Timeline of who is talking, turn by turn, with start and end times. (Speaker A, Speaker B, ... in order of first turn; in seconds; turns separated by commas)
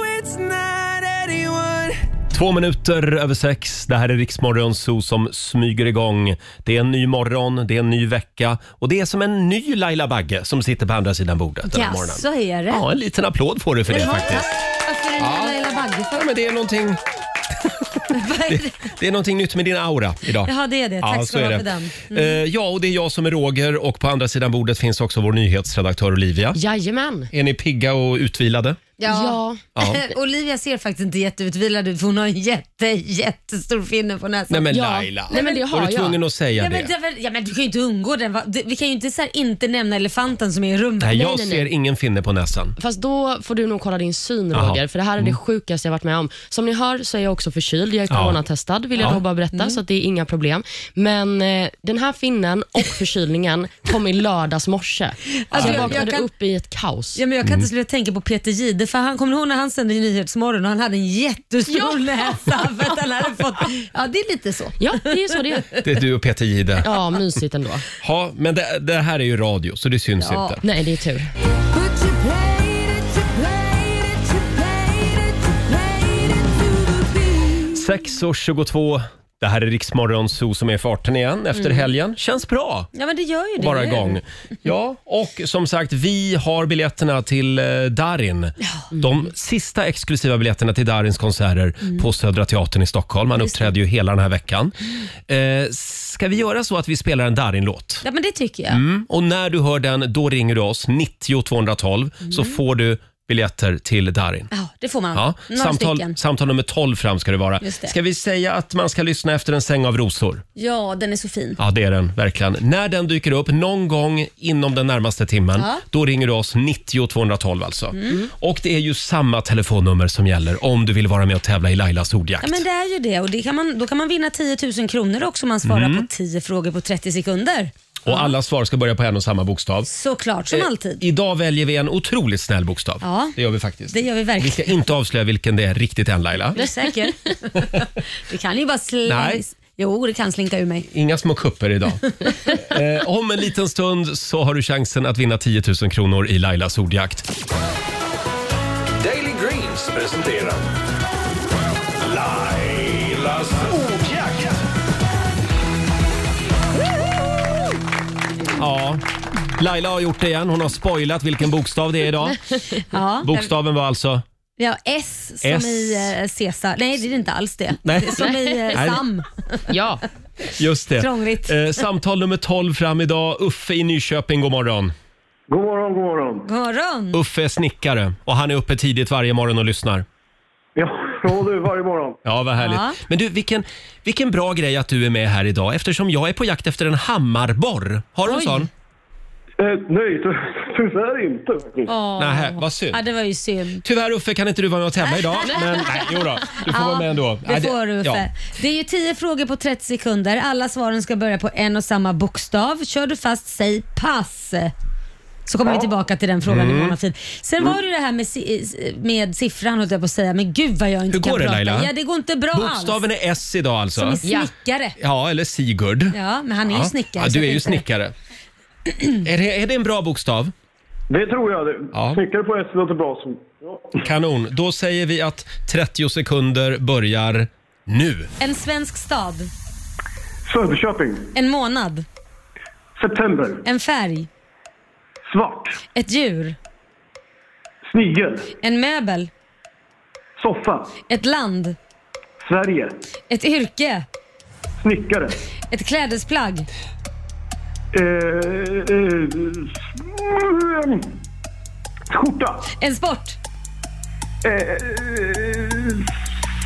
Speaker A: 2.3-14.6, Speaker B: 11.7-12.8, Speaker B: 13.9-16.2, Speaker A: 15.2-17.0, Speaker A: 17.6-26.6, Speaker B: 18.1-18.9, Speaker B: 20.4-22.4, Speaker C: 26.5-27.3, Speaker A: 27.3-28.8, Speaker B: 29.0-34.7, Speaker C: 29.0-29.6, Speaker A: 29.8-30.1, Speaker A: 34.5-36.9, Speaker C: 34.7-36.2, Speaker B: 35.3-35.6, Speaker B: 36.5-41.3, Speaker A: 41.0-42.8, Speaker C: 41.1-41.6, Speaker C: 42.8-57.2, Speaker A: 44.5-45.4, Speaker A: 48.1-48.4, Speaker A: 49.0-49.2, Speaker B: 55.4-56.3, Speaker A: 55.5-56.0, Speaker B: 57.1-65.1, Speaker C: 64.8-65.7, Speaker A: 65.8-67.0, Speaker C: 66.8-67.8, Speaker A: 68.0-70.6, Speaker B: 70.2-70.6, Speaker C: 70.6-71.3, Speaker A: 77.7-82.9, Speaker B: 81.5-81.9, Speaker B: 82.9-84.2, Speaker A: 83.6-94.7, Speaker B: 88.6-88.9, Speaker B: 93.4-93.7, Speaker A: 95.3-98.0, Speaker B: 98.0-98.8, Speaker A: 98.7-104.5, Speaker B: 102.2-102.6, Speaker B: 104.5-106.2, Speaker A: 105.1-110.4, Speaker B: 107.6-107.9, Speaker B: 110.5-111.6, Speaker A: 111.6-122.6, Speaker B: 115.5-115.8, Speaker B: 122.4-128.3, Speaker A: 125.6-126.1, Speaker A: 128.0-129.9, Speaker B: 129.9-131.0, Speaker A: 130.5-136.6, Speaker B: 133.0-133.3, Speaker B: 133.9-134.7, Speaker B: 136.5-140.9, Speaker A: 139.1-139.4, Speaker A: 140.9-142.0, Speaker A: 142.5-147.3, Speaker D: 149.0-150.7, Speaker D: 152.0-154.6, Speaker A: 158.6-159.0, Speaker A: 159.6-162.4, Speaker B: 162.9-163.5, Speaker A: 163.2-164.2, Speaker B: 164.6-169.7, Speaker A: 165.4-166.1, Speaker A: 167.8-169.0, Speaker C: 168.2-168.9, Speaker C: 169.7-170.0, Speaker A: 170.5-174.9, Speaker B: 171.0-171.5, Speaker E: 175.5-176.5, Speaker B: 176.4-177.2, Speaker A: 177.1-180.1, Speaker E: 180.8-182.2, Speaker A: 182.2-188.7, Speaker B: 182.6-183.0, Speaker B: 188.2-188.7, Speaker E: 189.6-191.9, Speaker B: 191.9-193.8, Speaker A: 192.2-193.0, Speaker A: 193.8-198.2, Speaker B: 195.3-204.7, Speaker B: 205.5-213.0, Speaker E: 205.6-205.9, Speaker A: 206.4-206.9, Speaker A: 211.1-211.9, Speaker A: 212.5-214.2, Speaker B: 213.9-214.9, Speaker C: 214.2-214.5, Speaker A: 215.0-216.2, Speaker B: 216.1-217.8, Speaker A: 216.7-218.1, Speaker A: 219.2-220.5, Speaker E: 221.1-224.0, Speaker A: 221.9-222.2, Speaker A: 224.0-228.3, Speaker B: 228.4-229.5, Speaker E: 230.5-231.3, Speaker B: 231.3-232.0, Speaker E: 233.0-233.6, Speaker B: 233.6-234.3, Speaker E: 235.2-235.8, Speaker B: 235.9-236.6, Speaker E: 237.9-238.5, Speaker B: 238.6-239.3, Speaker E: 240.4-240.9, Speaker B: 241.1-241.8, Speaker E: 242.4-243.0, Speaker B: 243.3-244.1, Speaker E: 244.8-245.3, Speaker B: 245.7-246.7, Speaker E: 247.9-251.1, Speaker E: 252.1-252.7, Speaker B: 252.7-253.4, Speaker E: 254.4-256.1